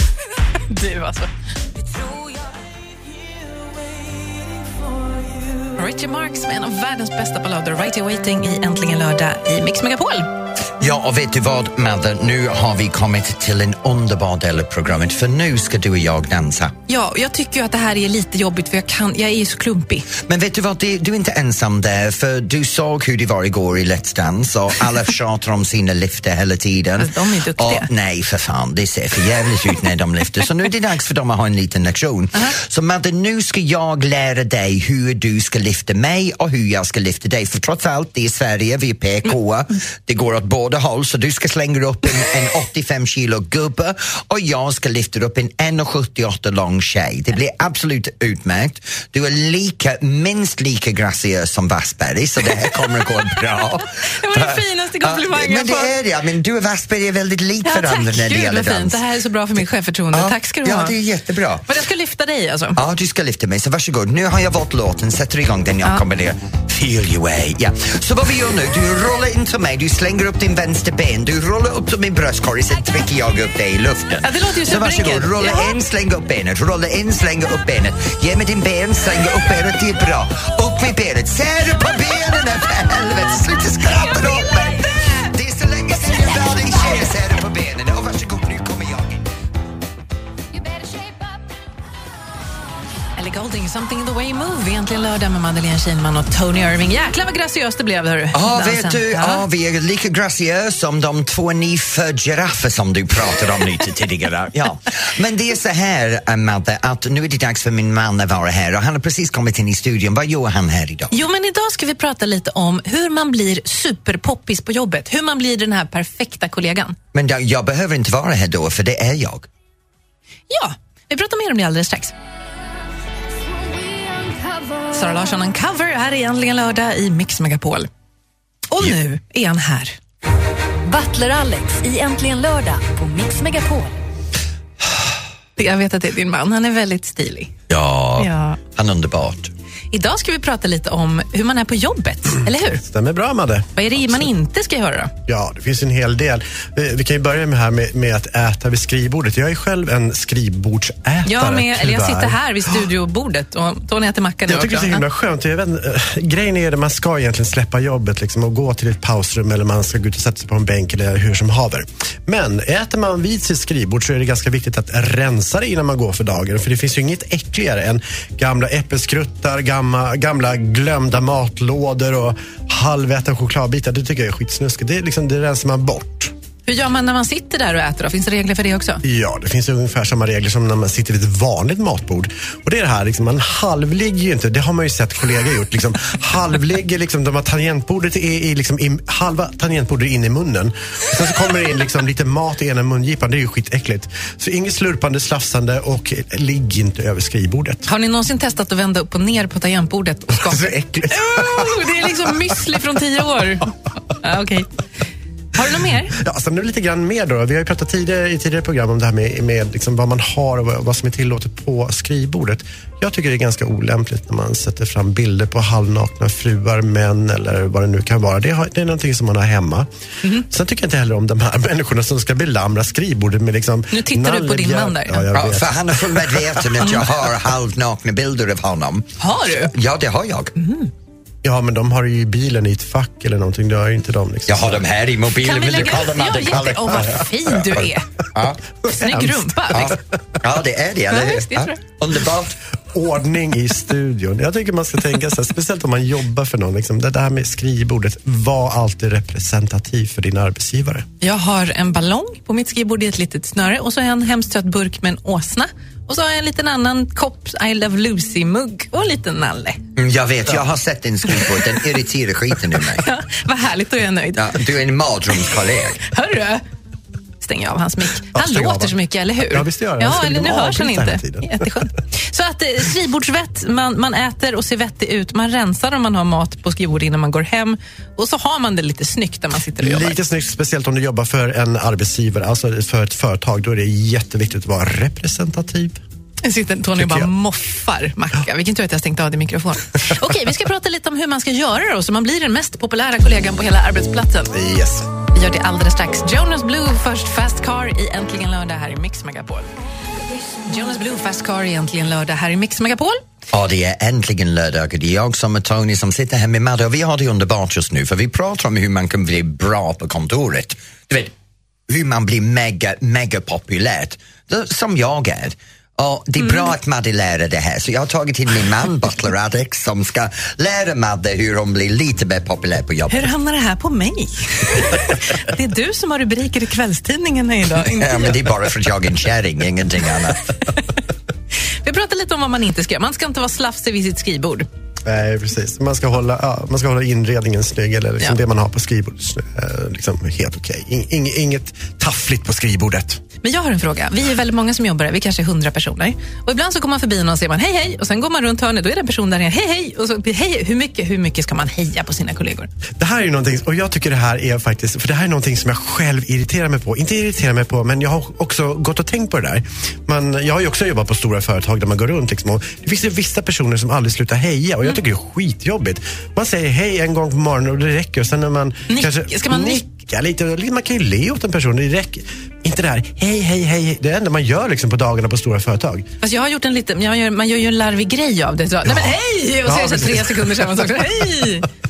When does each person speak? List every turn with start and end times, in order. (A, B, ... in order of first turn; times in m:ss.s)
0:00.7-0:01.3 A
0:05.8-0:10.3 A
0:10.8-0:16.7 B
0:16.9-0:20.1 A
0:20.2-0:59.0 B
0:27.0-0:27.9 A
0:54.0-0:55.9 A
0:57.6-1:01.0 A
1:00.1-1:01.7 B
1:01.7-1:02.8 A
1:02.8-1:29.2 B
1:14.2-1:15.7 A
1:24.0-1:25.3 A
1:33.2-1:39.4 A
1:38.3-1:51.1 B
1:51.1-1:57.0 A
1:57.1-1:59.5 B
2:00.5-2:02.1 A
2:03.7-2:04.9 C
2:04.9-2:07.9 A
2:08.7-2:10.0 A
2:10.8-2:14.0 C
2:15.6-2:17.5 A
2:17.7-2:19.5 B
2:18.2-2:18.6 A
2:19.9-2:22.8 A
2:22.8-2:24.3 D
2:23.7-2:25.1 A
2:25.3-2:32.4 D
2:31.2-2:35.0 A
2:34.4-2:56.3 D
2:56.6-2:59.0 A
2:59.0-3:17.8 D
3:17.9-3:24.7 A
3:20.3-3:22.1 D
3:25.6-3:26.1 A
3:26.1-3:39.9 D
3:40.4-3:46.7 D
3:43.9-3:45.3 A
3:45.3-3:50.5 B
3:49.2-3:49.7 A
3:50.6-3:50.9 A
3:51.4-3:54.8 D
3:54.5-3:57.2 B
3:55.4-3:58.1 A
3:58.8-3:59.9 D
3:58.8-4:00.0 A
3:59.7-4:02.6 B
4:01.1-4:01.8 A
4:02.9-4:11.0 D
4:11.2-4:19.8 A
4:20.0-4:23.0 B
4:21.4-4:21.7 A
4:23.0-4:24.6 A
4:24.4-4:26.0 B
4:26.1-4:26.6 A
4:27.4-4:40.1 A
4:28.3-4:31.7 D
4:39.8-4:46.0 D
4:46.4-4:54.5 A
4:47.0-4:47.3 D
4:54.5-4:55.1 D
4:55.3-4:59.7 A
5:00.7-5:03.2 A
5:03.5-5:11.3 B
5:11.9-5:23.3 B
5:16.4-5:16.7 A
5:23.1-5:28.4 A
5:28.0-5:30.4 B
5:31.8-5:34.7 A
5:35.0-5:43.2 D
5:43.4-5:52.7 A
5:53.0-6:16.1 D
6:08.9-6:09.8 A
6:16.2-6:21.7 A
6:18.8-6:21.5 D